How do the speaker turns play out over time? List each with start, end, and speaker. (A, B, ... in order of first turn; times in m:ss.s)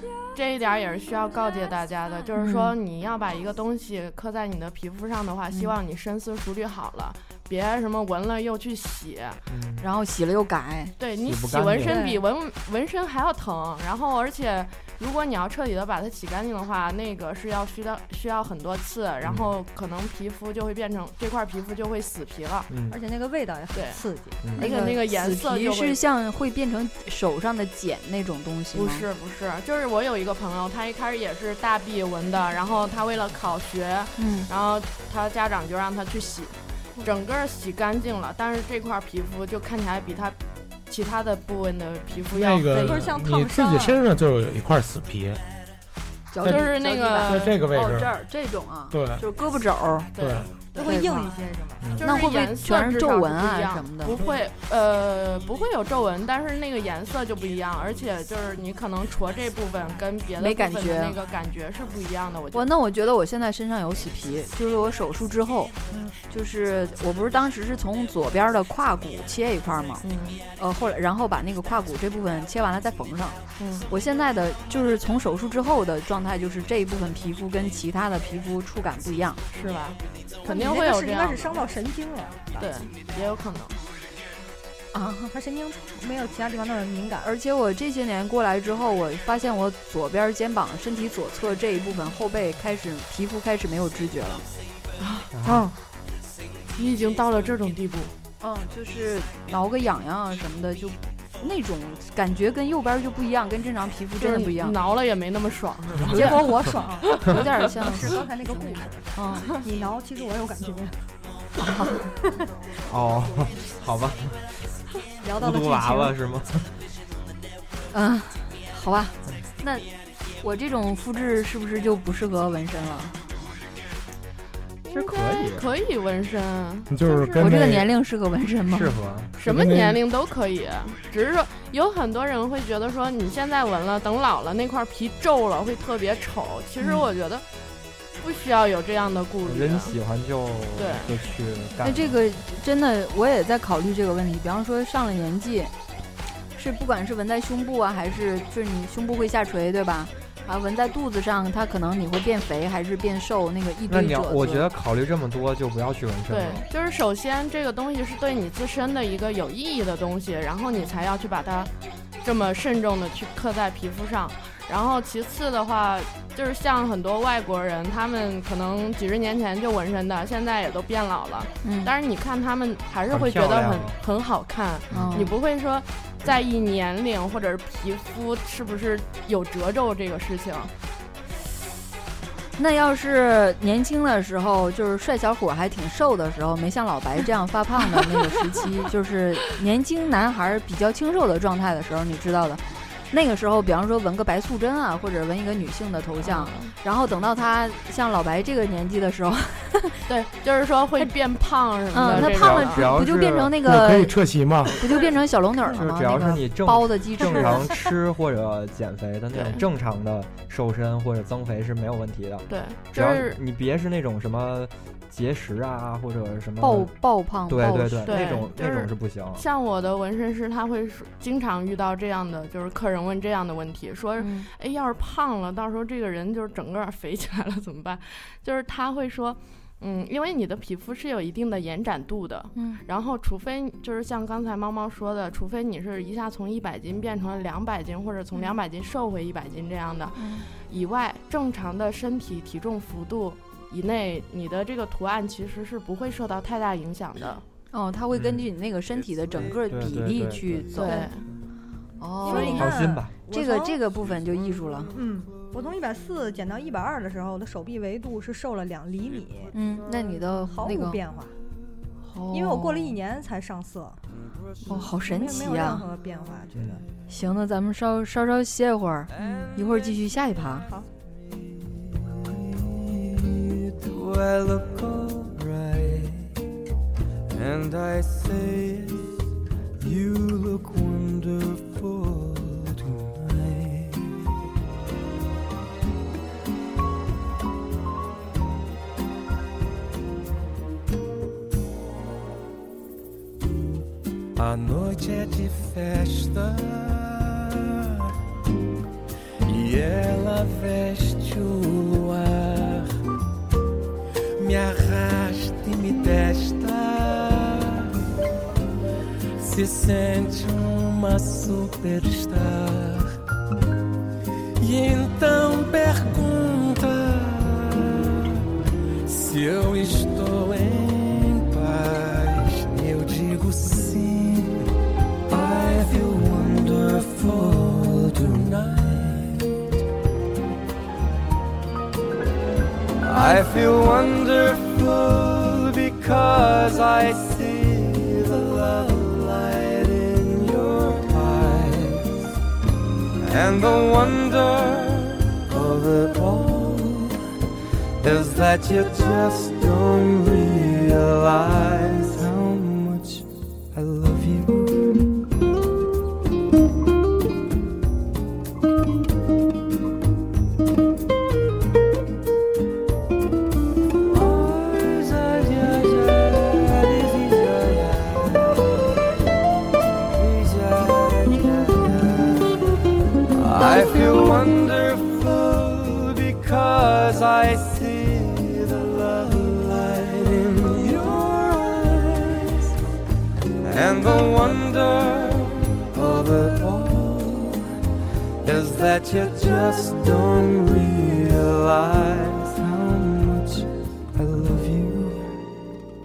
0:00.3-0:09.4 A
0:02.4-0:02.7 B
0:09.5-0:09.8 C
0:09.8-0:10.9 B
0:11.0-0:22.7 A
0:11.2-0:12.1 C
0:11.9-0:12.2 D
0:22.7-0:23.0 C
0:22.9-0:25.0 D
0:23.7-0:24.0 A
0:24.5-0:26.0 A
0:24.6-0:29.0 B
0:28.7-0:43.1 A
0:34.2-0:34.5 B
0:42.3-0:45.4 E
0:42.7-0:44.0 D
0:46.3-0:50.1 B
0:46.4-0:46.7 E
0:46.5-0:47.5 A
0:47.2-0:48.1 E
0:48.9-0:49.2 E
0:50.1-0:50.9 A
0:50.2-0:50.5 E
0:50.7-0:51.9 D
0:50.8-0:51.3 B
0:51.8-0:52.1 C
0:52.0-1:02.7 A
0:52.0-0:54.2 B
1:00.4-1:01.2 B
1:02.5-1:05.7 B
1:06.3-1:10.0 B
1:10.0-1:10.4 A
1:10.6-1:19.4 B
1:13.6-1:13.9 A
1:19.5-1:21.6 A
1:20.4-1:22.7 D
1:22.6-1:23.8 A
1:24.9-1:25.3 B
1:25.3-1:27.3 D
1:27.2-1:34.4 B
1:35.0-1:35.3 A
1:35.3-1:35.7 C
1:35.4-1:35.7 D
1:36.7-1:38.1 A
1:38.4-1:44.8 B
1:44.2-1:47.5 A
1:46.0-1:49.5 B
1:46.0-1:51.0 D
1:51.6-1:52.1 B
1:52.9-1:54.4 C
1:55.2-1:56.2 D
1:55.4-1:56.7 C
1:57.9-1:59.8 B
2:00.4-2:03.2 B
2:04.8-2:07.6 A
2:04.9-2:05.7 C
2:06.9-2:07.9 E
2:07.4-2:09.0 B
2:08.7-2:09.3 C
2:09.4-2:17.4 A
2:09.4-2:10.0 E
2:18.2-2:20.0 A
2:19.4-2:22.2 C
2:20.8-2:21.1 A
2:21.8-2:25.7 B
2:26.6-2:34.6 B
2:33.9-2:36.6 C
2:36.3-2:41.7 A
2:42.2-3:00.7 A
2:51.6-2:51.9 B
2:53.1-2:54.0 C
2:54.9-2:55.3 C
2:54.9-2:55.3 B
3:02.6-3:20.0 B
3:16.2-3:16.7 A
3:20.1-3:22.9 A
3:21.9-3:24.1 B
3:22.1-3:23.5 C
3:23.6-3:24.8 E
3:24.8-3:27.8 B
3:25.7-3:36.9 C
3:29.3-3:29.6 A
3:32.5-3:33.4 A
3:36.6-3:38.2 B
3:37.5-3:39.4 C
3:38.0-4:07.4 A
3:44.2-3:44.5 B
3:52.5-3:52.8 B
4:00.2-4:00.4 B
4:07.7-4:11.0 B
4:08.1-4:08.4 C
4:09.4-4:10.7 C
4:10.7-4:11.2 A
4:10.8-4:11.1 D
4:12.0-4:14.9 B
4:12.2-4:13.8 D
4:12.3-4:13.1 C
4:14.9-4:19.5 D
4:19.5-4:21.0 B
4:20.5-4:21.3 D
4:22.0-4:23.0 B
4:22.3-4:24.0 D
4:24.6-4:25.8 B
4:25.0-4:26.8 D
4:27.1-4:30.7 B
4:29.2-4:30.0 F
4:31.8-4:36.3 F
4:37.3-4:39.1 F
4:39.8-4:44.2 F
4:54.4-4:58.1 F
4:59.4-5:02.9 F
5:04.4-5:07.9 F
5:09.4-5:13.2 F
5:14.6-5:18.4 F
5:19.0-5:24.7 F
5:25.3-5:29.6 F
5:33.0-5:42.1 F
5:43.2-5:47.2 F
5:48.0-5:55.0 F
6:04.1-6:08.8 F
6:10.1-6:12.5 F
6:13.3-6:22.8 F
6:23.6-6:27.6 F
6:28.4-6:35.2 F